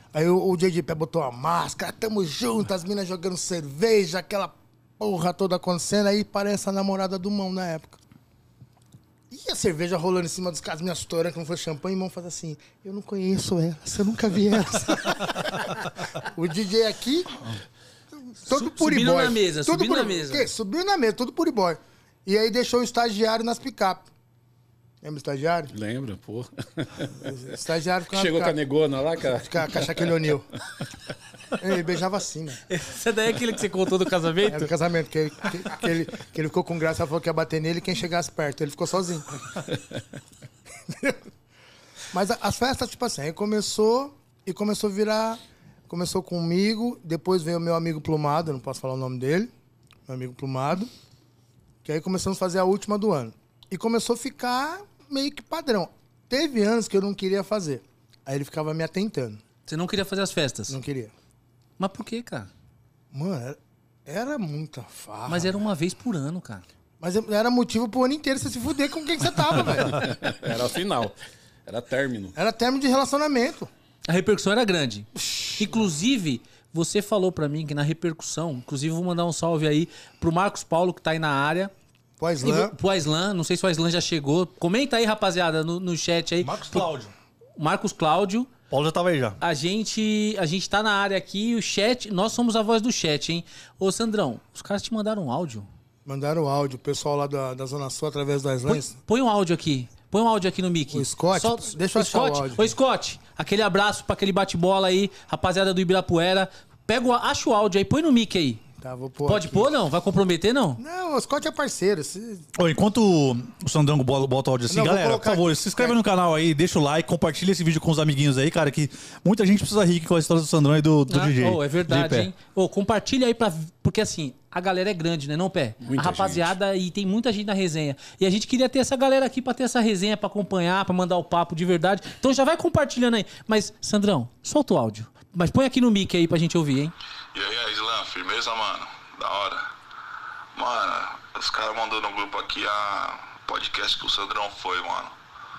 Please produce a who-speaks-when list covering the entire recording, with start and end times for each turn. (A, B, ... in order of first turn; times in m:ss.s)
0:00.1-0:08.0 A
0:09.3-0:17.5 A
0:18.3-0:24.0 A
0:18.5-0:20.5 B
0:25.0-0:25.7 A
0:25.7-0:27.2 C
0:27.1-0:28.5 A
0:28.1-0:30.1 C
0:29.4-0:30.5 A
0:31.5-0:32.6 A
0:32.7-0:34.7 B
0:34.5-0:39.4 A
0:40.9-0:41.2 A
0:42.1-0:49.5 A
0:50.1-0:50.9 A
0:51.8-0:59.4 A
0:59.7-1:00.8 B
1:00.7-1:01.1 A
1:01.8-1:02.5 B
1:03.1-1:05.6 A
1:05.3-1:06.6 B
1:07.0-1:10.1 A
1:09.7-1:12.3 C
1:12.3-1:13.7 A
1:14.0-1:21.7 B
1:15.2-1:15.5 A
1:22.2-1:22.7 A
1:22.4-1:26.8 B
1:26.4-1:27.1 D
1:27.6-1:28.5 B
1:28.7-1:29.4 D
1:29.4-1:35.7 B
1:36.0-1:38.9 A
1:38.7-1:48.6 B
1:40.9-1:42.7 A
1:48.8-1:49.7 A
1:49.2-1:50.8 B
1:50.8-1:52.4 A
1:52.5-2:02.3 D
1:54.7-1:56.0 A
2:01.1-2:16.9 B
2:05.8-2:06.5 C
2:17.3-2:19.7 E
2:20.5-2:25.1 E